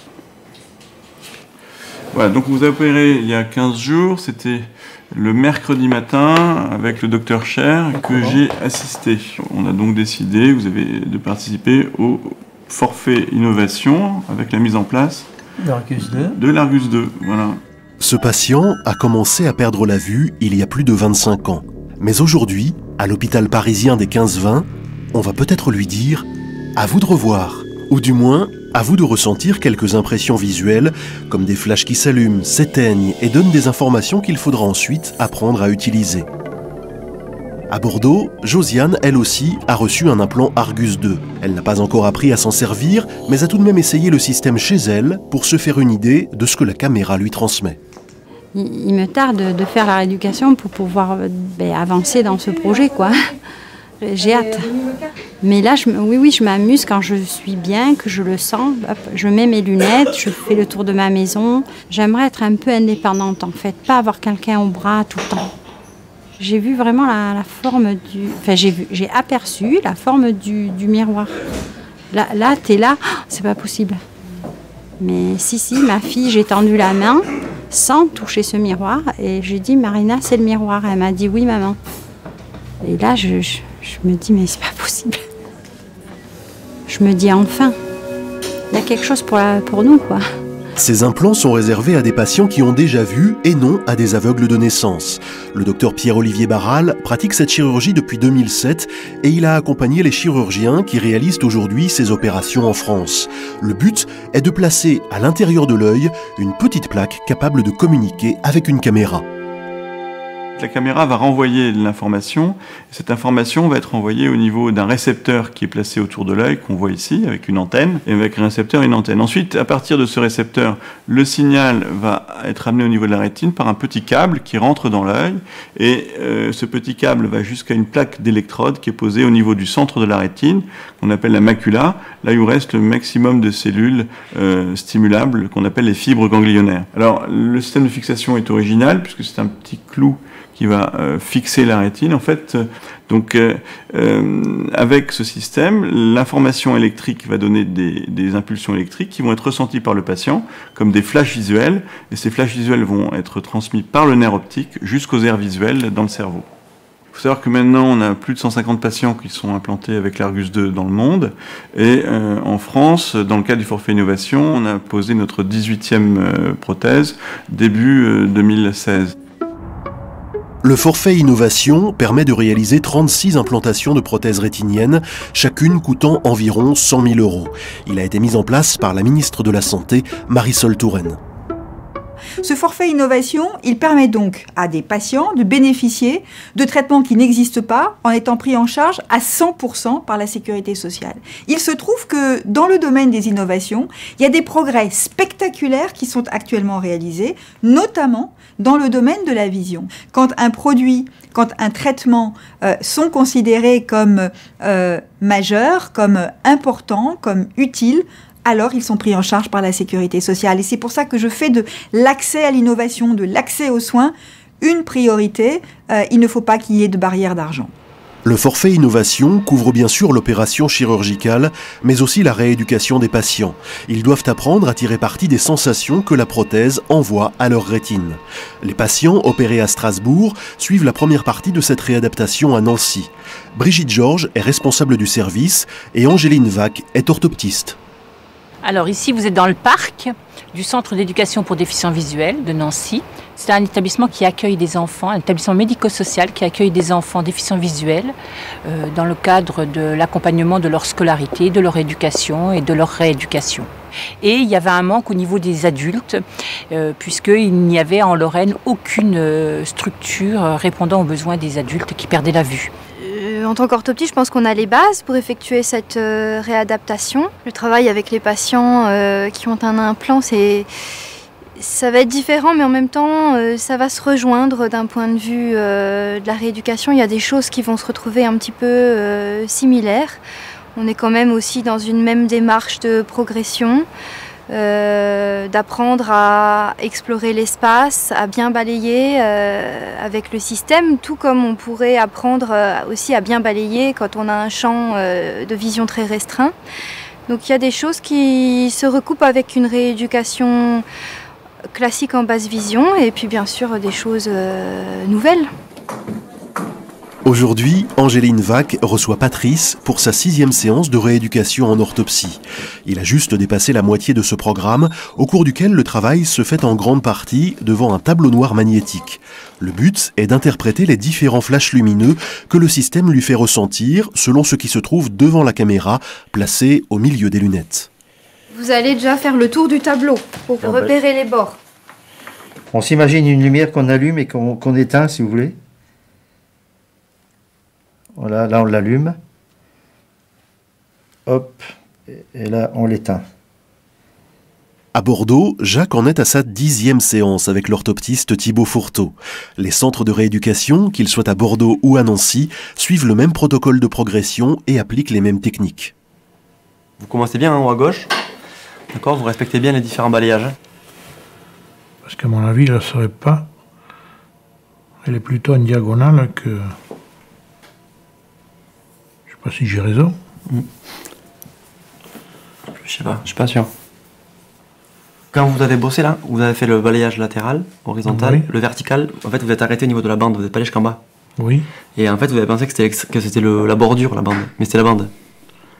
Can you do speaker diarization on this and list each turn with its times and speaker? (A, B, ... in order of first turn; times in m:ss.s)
0:02.1-0:15.3 A
0:15.7-0:16.1 B
0:15.9-0:17.6 A
0:18.0-0:36.3 C
0:37.7-0:47.8 C
0:48.5-0:53.3 D
0:54.0-0:54.7 D
0:55.4-1:05.5 D
1:06.4-1:11.3 D
1:12.1-1:14.0 D
1:15.0-1:21.8 D
1:22.8-1:25.2 D
1:26.9-1:27.8 D
1:28.7-1:30.2 D
1:30.8-1:49.2 C
1:50.6-2:36.5 A
2:37.1-2:49.1 A
2:50.6-3:01.2 C
3:02.4-3:37.7 E
3:38.2-3:57.8 C
3:58.6-4:13.7 F
4:14.2-4:22.7 F
4:22.9-4:30.7 G
4:31.6-4:40.2 G
4:40.7-4:43.9 G
4:44.5-4:56.5 G
4:57.3-5:00.8 G
5:01.7-5:05.5 G
5:07.2-5:27.9 C
5:28.5-5:31.6 G
5:30.6-5:30.9 B
5:32.7-5:35.6 B
5:38.2-5:39.2 B
5:41.2-5:43.2 B
5:44.9-5:55.9 C
5:57.0-5:58.1 H
5:58.9-6:00.6 H
6:02.0-6:03.5 I
6:05.0-6:06.7 I
6:09.3-6:10.2 I
6:12.8-6:13.7 H
6:15.3-6:21.0 H
6:18.0-6:18.4 I
6:21.4-6:21.7 I
6:22.0-6:25.1 H